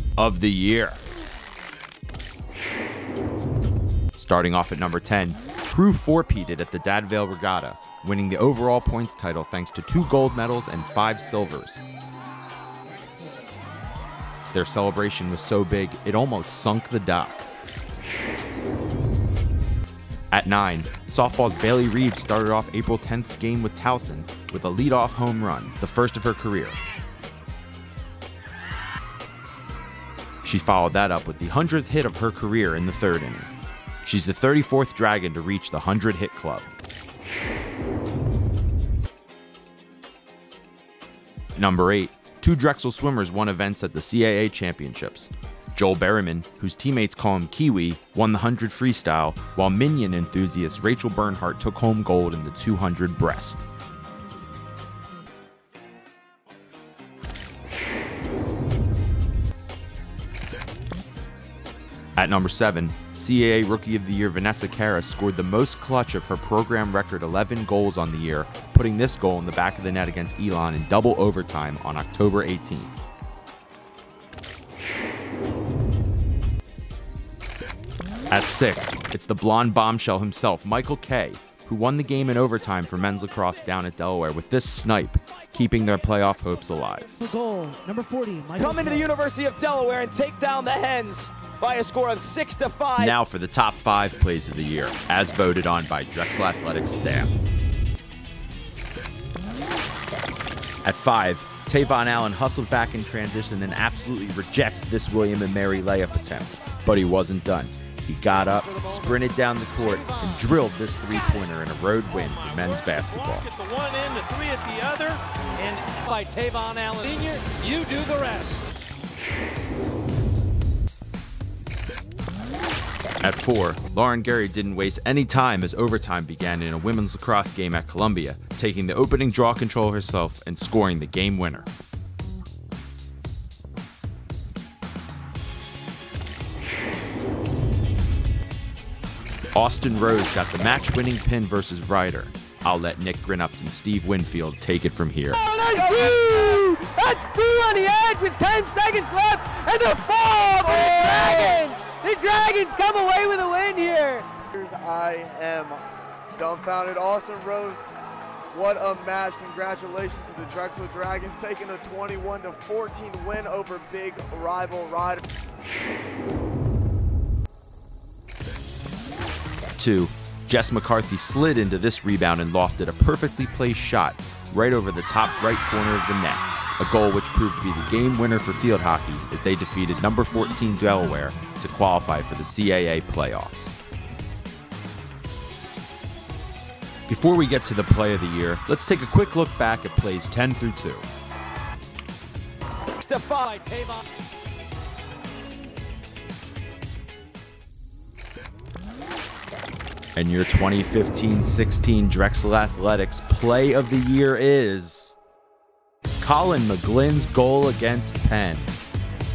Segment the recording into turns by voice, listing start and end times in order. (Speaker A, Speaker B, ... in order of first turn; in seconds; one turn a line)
Speaker A: 0.2-1.0
Speaker A: 4.1-11.8
Speaker A: 14.5-17.5
Speaker A: 20.3-26.8
Speaker A: 30.4-33.5
Speaker A: 34.0-36.7
Speaker A: 41.5-53.7
Speaker A: 62.2-72.9
Speaker A: 78.3-87.4
Speaker B: 87.3-89.0
Speaker C: 87.4-88.7
Speaker D: 88.6-93.1
Speaker A: 93.0-97.4
Speaker A: 100.8-113.5
Speaker C: 113.5-115.2
Speaker B: 114.0-114.8
Speaker C: 115.8-116.5
Speaker B: 117.0-118.5
Speaker C: 117.2-118.7
Speaker A: 123.2-131.7
Speaker A: 139.6-145.4
Speaker B: 145.3-154.3
Speaker E: 154.5-157.9
Speaker E: 158.5-165.3
Speaker A: 169.8-183.8
Speaker A: 187.1-191.1
Speaker D: 193.0-194.0
Speaker A: 200.2-205.2
Speaker A: 206.2-208.7